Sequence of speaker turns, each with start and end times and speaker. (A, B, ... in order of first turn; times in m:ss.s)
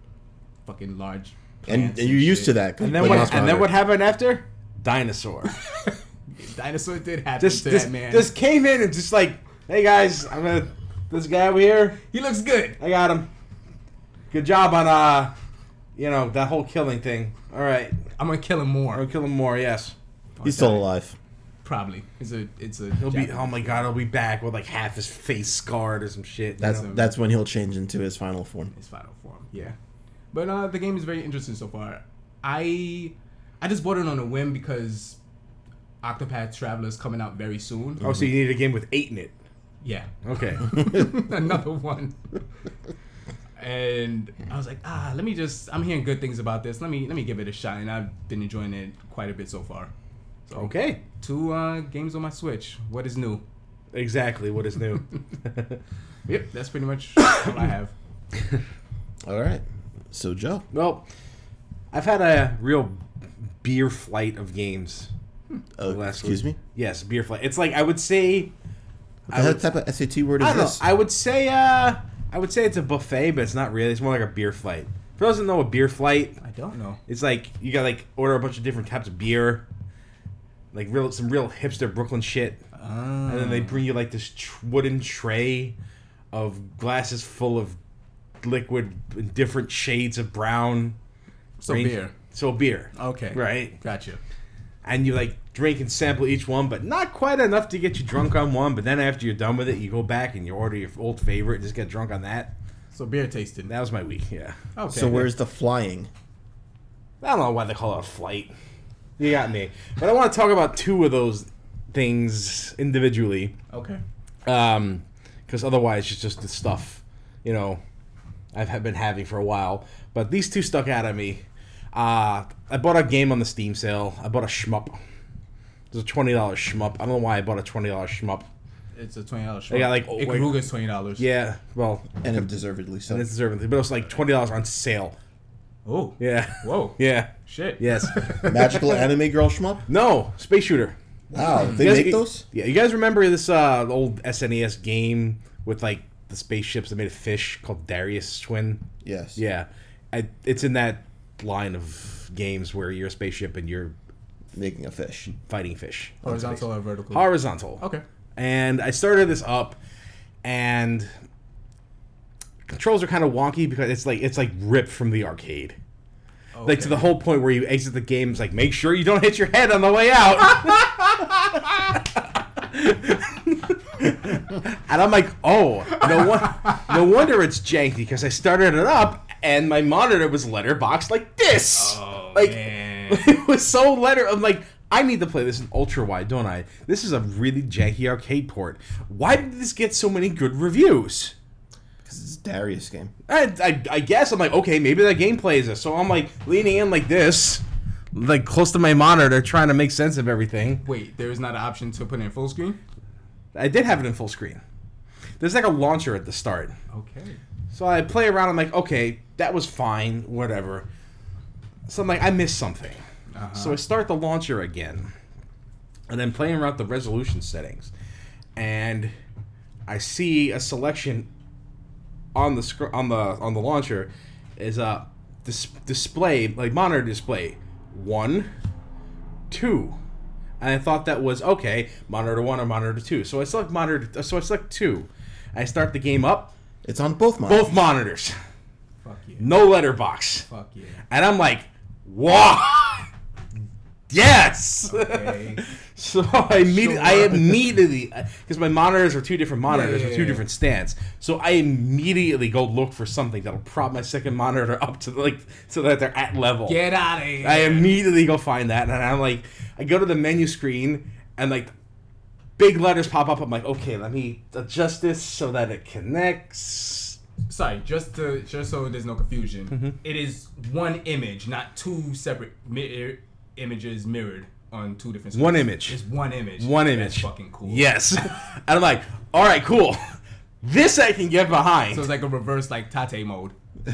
0:00.6-0:03.6 A
0:01.7-0:03.7 B
0:02.8-0:05.5 C
0:05.8-0:08.3 A
0:07.4-0:12.0 C
0:12.1-0:12.8 A
0:12.8-0:13.3 C
0:14.3-0:15.3 C
0:16.0-0:18.0 C
0:18.2-0:19.0 A
0:18.9-0:19.9 C
0:20.4-0:20.9 A
0:20.4-0:21.2 B
0:21.6-0:23.9 A
0:23.0-0:26.8 C
0:26.6-0:28.7 B
0:26.6-0:27.1 A
0:28.7-0:29.8 A
0:30.3-0:35.2 A
0:36.0-0:38.0 A
0:38.0-0:39.3 C
0:39.8-0:42.2 A
0:40.2-0:40.8 C
0:43.6-0:49.9 A
0:50.5-0:53.4 A
0:50.5-0:51.0 C
0:53.9-0:55.8 C
0:56.3-0:57.9 A
0:59.2-1:00.6 B
1:00.7-1:01.0 C
1:01.9-1:03.0 C
1:03.6-1:05.1 C
1:05.8-1:06.6 B
1:05.8-1:08.5 C
1:09.3-1:10.8 B
1:09.3-1:09.6 C
1:10.4-1:16.4 C
1:16.4-1:17.0 A
1:17.1-1:19.6 C
1:20.7-1:22.6 C
1:22.7-1:23.8 A
1:23.3-1:25.7 C
1:26.3-1:27.8 C
1:28.4-1:31.0 C
1:31.6-1:32.1 A
1:31.6-1:33.7 C
1:32.9-1:34.2 A
1:34.8-1:42.5 C
1:42.9-1:43.7 A
1:43.7-1:44.6 C
1:44.8-1:45.3 A
1:44.9-1:46.1 B
1:47.2-1:48.5 C
1:49.2-1:53.5 C
1:53.7-1:54.0 A
1:54.4-1:57.8 C
1:58.5-2:05.0 C
2:05.9-2:08.5 C
2:08.9-2:11.2 A
2:09.7-2:10.6 C
2:11.2-2:12.4 C
2:12.2-2:13.3 B
2:13.1-2:15.1 C
2:15.8-2:18.6 A
2:16.2-2:18.6 C
2:18.4-2:19.8 B
2:19.9-2:21.0 C
2:21.3-2:22.4 B
2:21.8-2:28.8 C
2:29.0-2:29.4 B
2:29.4-2:33.9 C
2:34.5-2:35.4 B
2:35.5-2:36.4 C
2:36.2-2:36.6 B
2:36.2-2:38.0 A
2:37.1-2:37.8 C
2:38.4-2:39.8 C
2:40.4-2:41.1 C
2:42.7-2:45.8 C
2:46.5-2:47.1 A
2:46.6-3:11.3 C
2:56.0-2:56.9 A
3:01.7-3:03.3 A
3:12.0-3:13.1 B
3:13.3-3:20.8 C
3:20.8-3:22.8 A
3:23.5-3:24.6 C
3:25.4-3:26.8 C
3:26.9-3:27.4 A
3:27.7-3:30.8 C
3:31.9-3:33.0 C
3:33.3-3:33.8 A
3:33.5-3:35.1 C
3:36.1-3:37.9 C
3:38.6-3:39.1 C
3:39.9-3:41.3 C
3:42.3-3:48.5 C
3:49.5-3:50.0 C
3:50.6-3:56.5 C
3:56.8-3:57.7 B
3:57.5-3:58.3 C
3:59.0-3:59.5 A
3:59.4-4:00.4 C
4:00.4-4:01.0 A
4:01.1-4:03.1 C
4:04.1-4:16.8 C
4:04.9-4:05.6 A
4:06.6-4:07.6 A
4:09.7-4:10.4 A
4:16.6-4:17.9 A
4:17.4-4:21.7 C
4:22.6-4:27.2 C
4:27.5-4:38.2 A
4:35.3-4:36.0 C
4:36.6-4:42.1 C
4:41.9-4:43.5 A